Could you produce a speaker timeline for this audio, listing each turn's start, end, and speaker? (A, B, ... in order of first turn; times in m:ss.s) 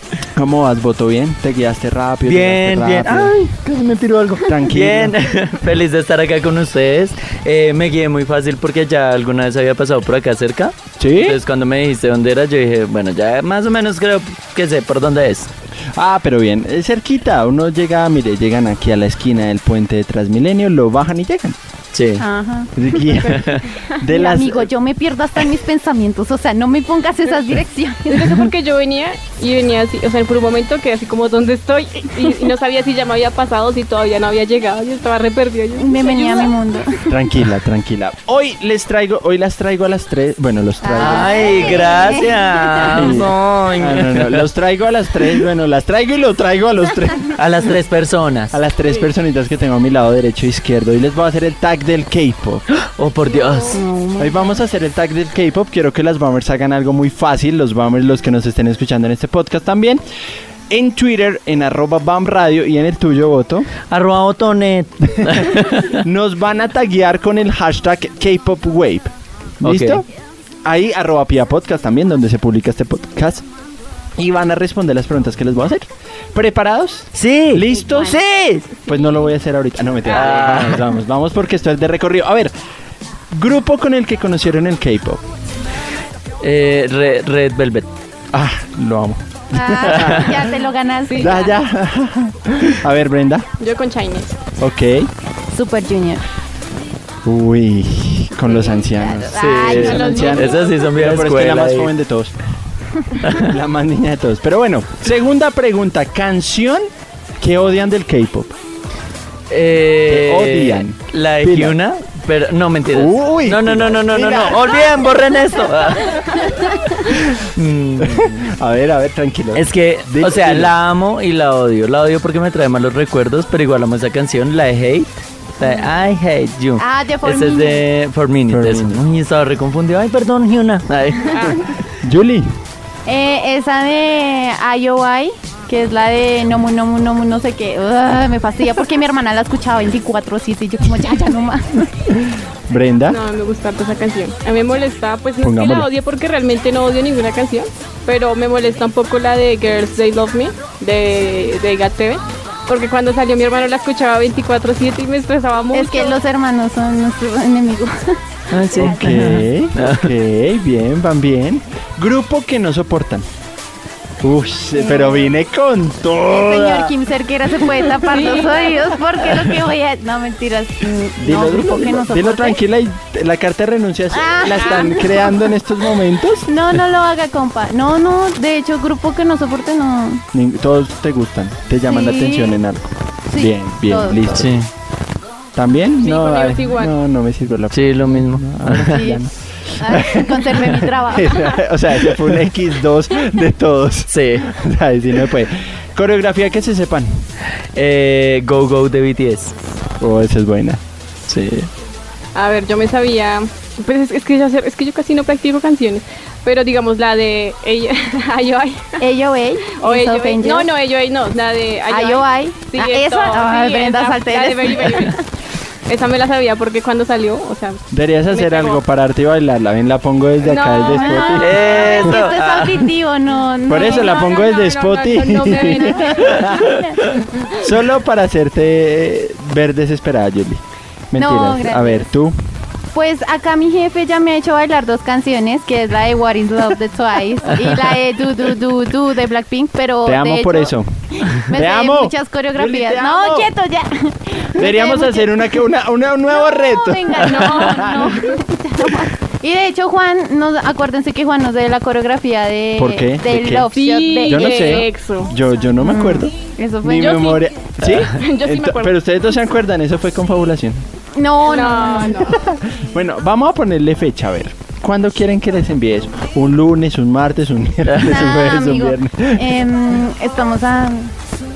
0:00.4-0:03.4 A
0:02.2-0:15.5 B
0:04.4-0:05.2 A
0:11.0-0:11.4 A
0:16.0-0:21.6 A
0:21.9-0:22.2 B
0:22.2-0:22.7 C
0:22.8-0:24.7 A
0:24.1-0:28.3 C
0:28.1-0:36.6 D
0:35.8-0:37.2 C
0:37.1-0:41.9 A
0:40.8-0:43.0 C
0:41.0-0:44.5 B
0:42.8-0:47.4 A
0:47.4-0:48.6 B
0:48.5-0:52.6 A
0:52.8-0:53.8 B
0:53.7-0:54.6 C
0:54.2-1:00.0 A
1:00.7-1:03.7 A
1:03.9-1:06.0 B
1:06.0-1:10.1 A
1:09.6-1:10.0 B
1:10.6-1:13.5 A
1:14.2-1:22.5 A
1:17.2-1:18.7 B
1:17.8-1:18.2 C
1:20.1-1:20.4 D
1:20.1-1:20.9 B
1:23.3-1:25.2 A
1:26.4-1:27.9 B
1:28.3-1:30.5 A
1:29.5-1:31.6 C
1:30.0-1:30.2 B
1:31.1-1:31.4 D
1:31.2-1:33.5 A
1:33.6-1:34.3 D
1:34.6-1:35.1 A
1:35.5-1:36.2 C
1:37.2-1:42.4 A
1:38.5-1:40.5 C
1:39.3-1:41.9 B
1:39.6-1:40.9 D
1:43.2-1:43.5 B
1:43.3-1:46.8 A
1:47.4-1:48.5 A
1:49.5-1:58.4 B
1:50.1-1:51.8 A
1:52.9-1:54.8 A
1:58.0-2:00.8 A
1:59.5-2:11.4 B
2:06.8-2:07.9 C
2:08.5-2:09.0 A
2:12.0-2:12.5 A
2:13.1-2:21.9 C
2:22.1-2:23.2 A
2:23.1-2:36.2 D
2:25.4-2:25.9 A
2:35.7-2:39.0 C
2:38.5-2:40.1 B
2:38.8-2:43.3 A
2:44.2-2:46.9 A
2:44.8-2:45.4 C
2:46.3-2:52.6 C
2:48.0-2:48.7 D
2:51.2-2:56.5 A
2:54.1-2:55.6 C
2:56.4-3:00.2 C
3:00.3-3:04.6 A
3:01.8-3:02.6 C
3:03.3-3:04.5 C
3:04.3-3:04.7 B
3:05.6-3:17.2 A
3:06.0-3:06.9 D
3:07.7-3:09.1 B
3:08.8-3:09.2 C
3:09.8-3:11.5 C
3:14.1-3:14.5 B
3:17.8-3:19.5 B
3:20.0-3:20.8 A
3:21.3-3:21.7 B
3:22.4-3:29.0 D
3:29.0-3:30.7 C
3:29.8-3:35.2 D
3:31.9-3:35.2 C
3:35.9-3:38.8 D
3:37.9-3:42.2 A
3:40.4-3:41.7 D
3:40.8-3:44.2 C
3:41.4-3:42.9 B
3:43.7-3:46.2 A
3:43.7-3:46.6 D
3:45.6-3:47.6 C
3:47.6-3:50.6 A
3:51.1-3:52.3 A
3:51.2-3:52.1 C
3:52.9-4:05.5 C
4:00.0-4:03.5 A
4:04.6-4:08.2 A
4:06.3-4:14.9 C
4:07.2-4:08.4 D
4:12.8-4:13.7 A
4:13.7-4:15.3 D
4:14.3-4:20.8 A
4:15.8-4:17.2 C
4:17.0-4:17.4 D
4:18.0-4:18.9 D
4:21.2-4:22.3 C
4:21.4-4:22.4 D
4:22.4-4:29.6 A
4:28.0-4:31.1 C